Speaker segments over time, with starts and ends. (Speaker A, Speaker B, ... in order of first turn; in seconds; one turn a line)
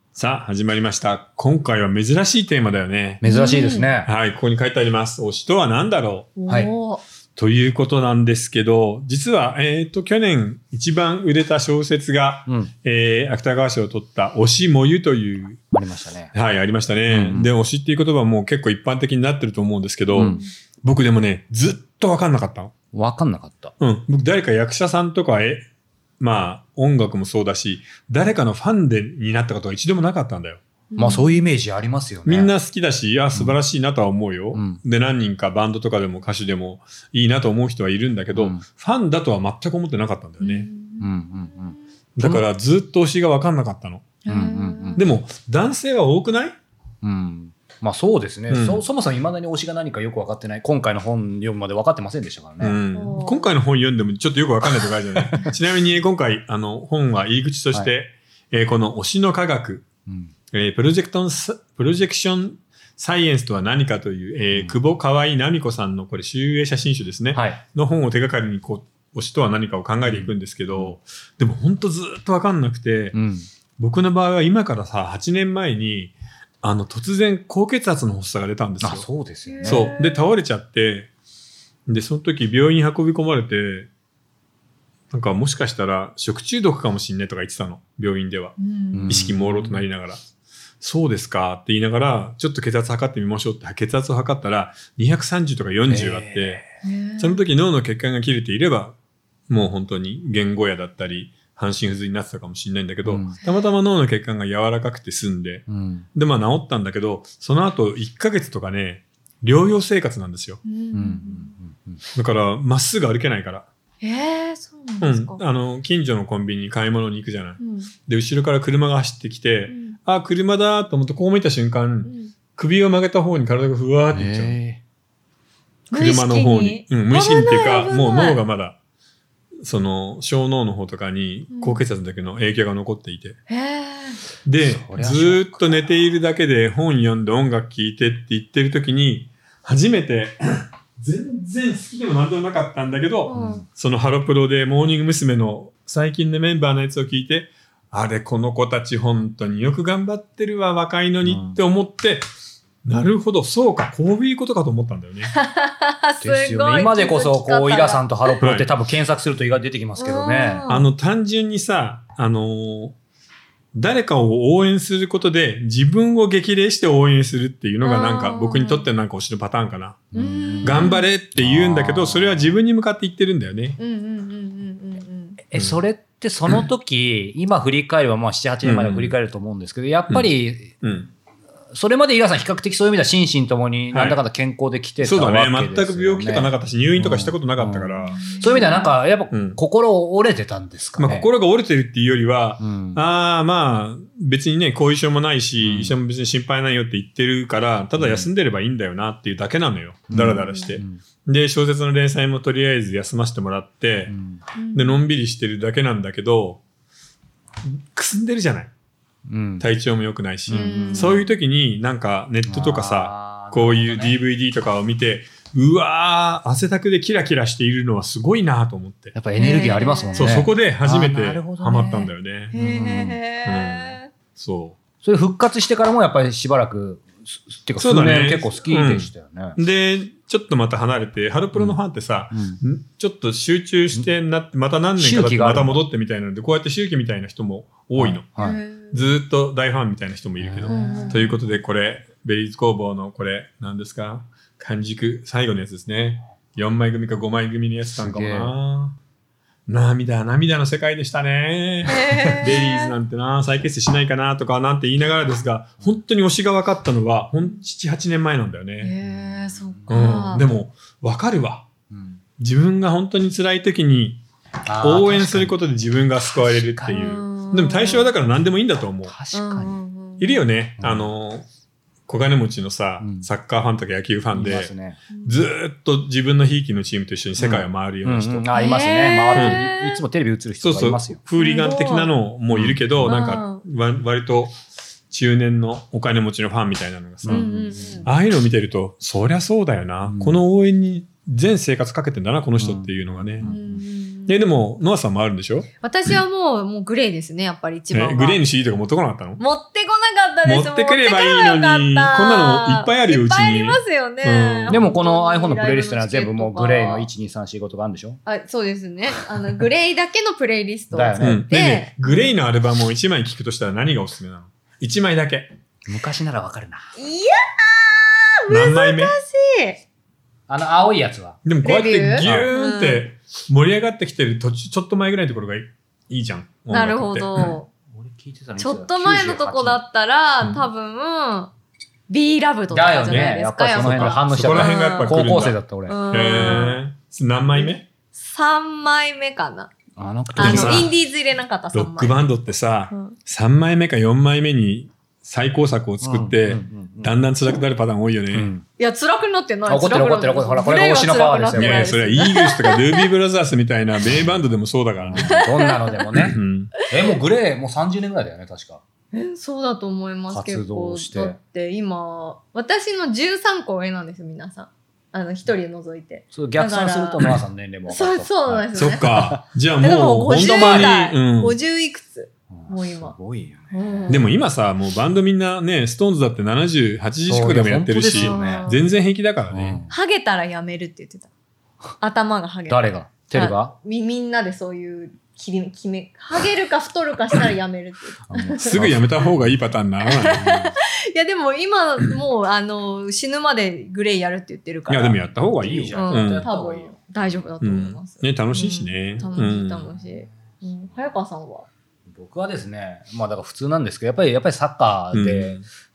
Speaker A: 0.2-3.2
Speaker B: 3.2-4.1
Speaker C: 3.2-3.9
Speaker A: 4.0-6.3
Speaker C: 6.4-7.0
Speaker A: 7.4-15.6
Speaker B: 15.7-16.3
Speaker A: 16.3-22.7
Speaker B: 17.1-17.5
Speaker B: 20.1-20.4
Speaker C: 20.2-20.5
Speaker B: 22.9-23.7
Speaker A: 23.8-25.7
Speaker A: 26.2-30.6
Speaker C: 30.9-31.3
Speaker B: 31.0-32.5
Speaker A: 32.3-40.7
Speaker B: 34.5-34.8
Speaker B: 38.3-38.6
Speaker C: 40.4-41.8
Speaker B: 41.0-42.5
Speaker A: 42.2-44.1
Speaker C: 44.2-45.0
Speaker B: 44.3-45.0
Speaker A: 45.0-46.6
Speaker B: 47.0-52.8
Speaker A: 48.5-48.8
Speaker A: 52.6-59.9
Speaker C: 52.9-53.5
Speaker B: 60.1-60.3
Speaker A: 60.5-73.2
Speaker B: 64.5-64.8
Speaker B: 67.3-67.6
Speaker B: 70.0-71.0
Speaker B: 73.1-73.5
Speaker A: 73.8-79.1
Speaker B: 78.8-79.9
Speaker C: 79.5-80.3
Speaker A: 79.6-81.1
Speaker A: 81.9-83.9
Speaker A: 85.1-88.6
Speaker C: 88.6-89.2
Speaker B: 88.9-89.8
Speaker A: 89.1-90.2
Speaker A: 90.8-96.6
Speaker B: 95.9-96.6
Speaker C: 96.8-97.4
Speaker A: 97.2-99.0
Speaker A: 99.5-110.6
Speaker B: 103.0-103.4
Speaker B: 105.7-106.1
Speaker C: 110.7-111.5
Speaker B: 110.9-112.0
Speaker A: 112.2-113.7
Speaker C: 114.0-115.4
Speaker A: 115.0-124.6
Speaker C: 117.6-117.9
Speaker C: 119.7-120.0
Speaker C: 122.0-122.3
Speaker B: 124.1-124.8
Speaker C: 125.9-128.4
Speaker A: 125.9-128.8
Speaker A: 129.6-133.4
Speaker C: 131.5-131.8
Speaker C: 133.5-134.2
Speaker A: 134.4-152.3
Speaker B: 134.6-135.8
Speaker C: 143.3-143.7
Speaker B: 143.3-143.7
Speaker B: 151.2-151.6
Speaker A: 152.8-155.3
Speaker C: 155.3-158.4
Speaker B: 156.2-160.7
Speaker A: 158.4-158.7
Speaker C: 160.0-160.9
Speaker A: 160.7-162.9
Speaker A: 163.7-170.1
Speaker C: 167.8-168.8
Speaker B: 170.1-172.6
Speaker C: 170.2-171.1
Speaker A: 170.6-173.8
Speaker C: 173.8-175.4
Speaker B: 175.5-180.8
Speaker A: 178.6-179.2
Speaker A: 180.8-181.1
Speaker B: 181.7-191.3
Speaker A: 183.9-184.2
Speaker A: 185.0-188.5
Speaker C: 188.1-188.9
Speaker A: 189.3-189.6
Speaker A: 191.0-204.1
Speaker B: 192.6-193.0
Speaker B: 195.6-195.9
Speaker B: 198.0-198.3
Speaker B: 200.1-201.0
Speaker C: 200.3-200.8
Speaker B: 204.1-204.4
Speaker C: 204.6-205.0
Speaker A: 204.7-206.6
Speaker A: 207.6-208.7
Speaker B: 209.3-209.7
Speaker A: 209.6-219.2
Speaker B: 210.5-211.2
Speaker C: 210.5-211.3
Speaker B: 212.5-214.2
Speaker B: 219.1-223.2
Speaker C: 219.3-220.3
Speaker A: 220.2-222.5
Speaker C: 222.5-224.1
Speaker A: 223.4-224.8
Speaker B: 225.0-229.6
Speaker A: 227.8-238.3
Speaker B: 232.3-232.6
Speaker B: 235.0-235.8
Speaker B: 238.0-238.6
Speaker C: 238.4-239.0
Speaker A: 238.8-249.0
Speaker B: 240.4-241.3
Speaker C: 240.7-241.3
Speaker B: 247.9-248.5
Speaker A: 249.7-258.9
Speaker C: 251.9-252.9
Speaker C: 258.8-260.4
Speaker B: 259.0-260.4
Speaker A: 259.9-261.7
Speaker B: 261.9-262.2
Speaker A: 262.4-264.2
Speaker B: 264.7-265.6
Speaker A: 264.8-269.1
Speaker B: 266.3-267.2
Speaker C: 266.9-268.1
Speaker B: 269.1-269.8
Speaker C: 269.3-270.4
Speaker A: 270.2-271.4
Speaker B: 270.8-271.1
Speaker A: 272.1-274.7
Speaker B: 273.0-273.3
Speaker B: 274.3-275.0
Speaker C: 275.1-275.4
Speaker A: 275.2-278.4
Speaker B: 277.4-281.2
Speaker C: 278.5-280.0
Speaker A: 279.3-279.6
Speaker A: 280.6-284.6
Speaker C: 281.4-282.1
Speaker B: 282.5-283.1
Speaker C: 283.0-283.6
Speaker A: 285.1-287.5
Speaker B: 287.2-288.1
Speaker C: 287.3-288.1
Speaker A: 288.0-293.5
Speaker B: 290.1-290.4
Speaker B: 292.6-293.8
Speaker C: 293.4-294.4
Speaker A: 294.3-295.7
Speaker C: 295.8-298.4
Speaker A: 297.9-299.4
Speaker C: 299.4-307.1
Speaker A: 300.4-304.8
Speaker B: 304.7-308.2
Speaker C: 308.3-312.4
Speaker B: 310.9-311.5
Speaker A: 311.2-315.5
Speaker B: 315.9-316.9
Speaker C: 317.0-319.8
Speaker A: 318.5-319.1
Speaker B: 320.5-321.4
Speaker A: 321.4-327.6
Speaker C: 321.6-323.1
Speaker B: 322.2-322.5
Speaker C: 326.7-327.7
Speaker B: 327.9-329.8
Speaker C: 328.6-331.5
Speaker A: 330.4-330.7
Speaker C: 332.1-335.2
Speaker B: 332.7-336.7
Speaker A: 333.1-335.6
Speaker C: 335.9-336.8
Speaker A: 336.1-337.9
Speaker C: 337.6-339.7
Speaker B: 340.0-340.9
Speaker C: 340.4-342.2
Speaker A: 340.4-340.9
Speaker A: 341.7-348.5
Speaker C: 342.9-343.2
Speaker B: 346.0-347.2
Speaker B: 348.3-348.6
Speaker C: 348.8-353.1
Speaker B: 349.7-351.9
Speaker A: 351.6-355.4
Speaker B: 354.1-354.4
Speaker B: 355.0-358.8
Speaker C: 355.2-356.1
Speaker A: 356.1-356.7
Speaker C: 359.1-367.3
Speaker B: 360.3-361.4
Speaker B: 366.3-369.4
Speaker C: 367.9-369.1
Speaker A: 368.7-371.6
Speaker C: 369.8-373.2
Speaker B: 370.3-371.0
Speaker B: 372.5-374.3
Speaker C: 373.7-374.3
Speaker A: 374.1-379.9
Speaker B: 377.3-378.7
Speaker C: 378.1-378.8
Speaker B: 379.5-379.9
Speaker C: 379.9-381.3
Speaker C: 382.0-388.9
Speaker B: 382.7-383.7
Speaker B: 388.3-389.5
Speaker A: 388.6-390.5
Speaker C: 390.0-395.2
Speaker B: 390.3-390.7
Speaker A: 394.9-396.5
Speaker B: 395.4-397.5
Speaker C: 395.9-401.7
Speaker A: 397.6-399.9
Speaker B: 399.4-400.2
Speaker B: 402.1-405.6
Speaker A: 405.1-405.6